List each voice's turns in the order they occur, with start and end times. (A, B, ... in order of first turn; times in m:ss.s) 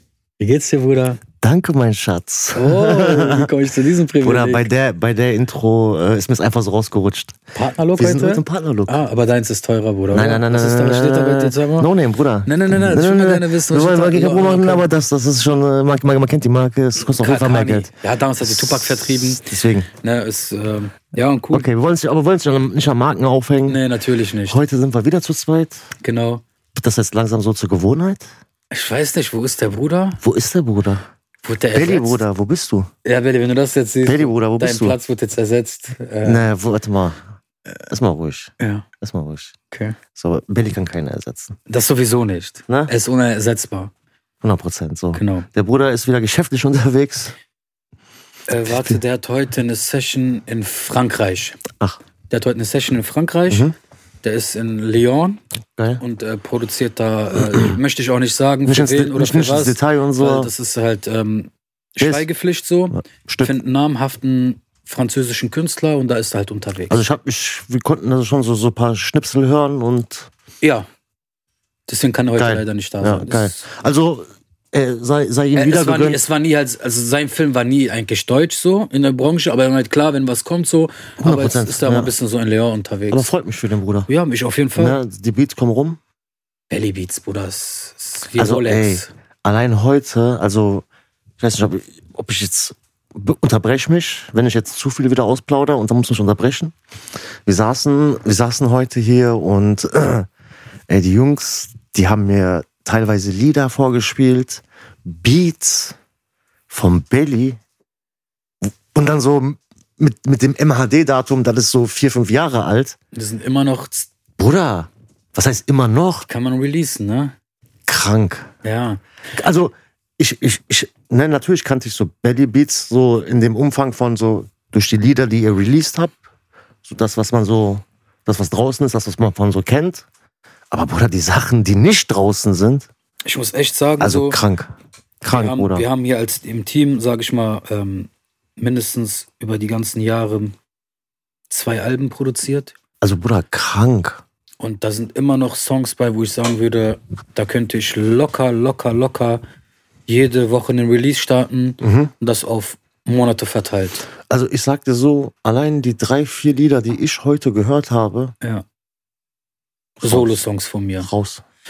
0:00.4-0:01.2 A
0:01.4-0:03.5 B
0:02.6-0:04.7 A
0:04.2-0:07.4 B
0:07.6-0:11.9 A
0:08.0-0:09.0 B
0:10.1-0:17.9 B
0:12.5-0:14.9 A
0:17.1-0:19.4 A
0:18.4-0:19.9 B
0:20.0-0:21.7 A
0:21.5-0:23.8 B
0:23.7-0:24.6 A
0:24.5-0:25.8 B
0:26.0-0:26.4 A
0:26.8-0:28.3 B
0:28.7-0:30.2 A
0:30.2-0:31.0 B
0:31.4-0:32.2 A
0:31.7-0:32.9 B
0:33.0-0:36.5 A
0:34.0-0:35.0 B
0:36.2-0:37.2 B
0:37.9-0:39.5 B
0:38.6-0:38.8 A
0:39.7-0:40.0 A
0:40.2-0:41.6 B
0:41.7-0:43.9 A
0:44.4-0:47.4 B
0:45.1-0:45.5 A
0:48.5-0:51.6 A
0:48.7-0:49.0 B
0:52.3-0:53.7 A
0:54.2-0:55.4 A
0:55.8-0:56.0 B
0:56.0-1:07.0 A
0:57.4-0:57.8 B
0:58.7-1:00.5 B
1:02.0-1:02.3 B
1:03.0-1:03.6 B
1:06.9-1:10.3 B
1:10.6-1:10.9 A
1:11.9-1:13.6 A
1:12.4-1:16.2 B
1:15.6-1:23.3 A
1:21.2-1:22.1 B
1:23.1-1:24.1 B
1:24.1-1:25.0 A
1:24.8-1:26.0 B
1:26.7-1:29.1 A
1:28.4-1:30.9 B
1:31.4-1:36.8 B
1:37.5-1:40.3 B
1:40.9-1:46.0 B
1:46.7-1:47.6 B
1:48.6-1:53.0 B
1:53.1-1:54.1 A
1:54.4-1:56.3 B
1:56.3-1:57.3 A
1:57.9-1:58.5 B
1:58.6-1:59.0 A
1:59.3-2:06.2 B
2:06.8-2:10.1 B
2:10.7-2:12.9 B
2:13.3-2:14.4 A
2:14.0-2:14.7 B
2:15.2-2:15.9 B
2:15.3-2:20.6 A
2:21.5-2:22.7 A
2:23.0-2:24.2 B
2:24.6-2:29.4 A
2:30.1-2:34.1 A
2:31.8-2:32.1 B
2:34.3-2:38.4 B
2:40.0-2:41.1 A
2:40.0-2:40.4 B
2:41.0-2:41.4 B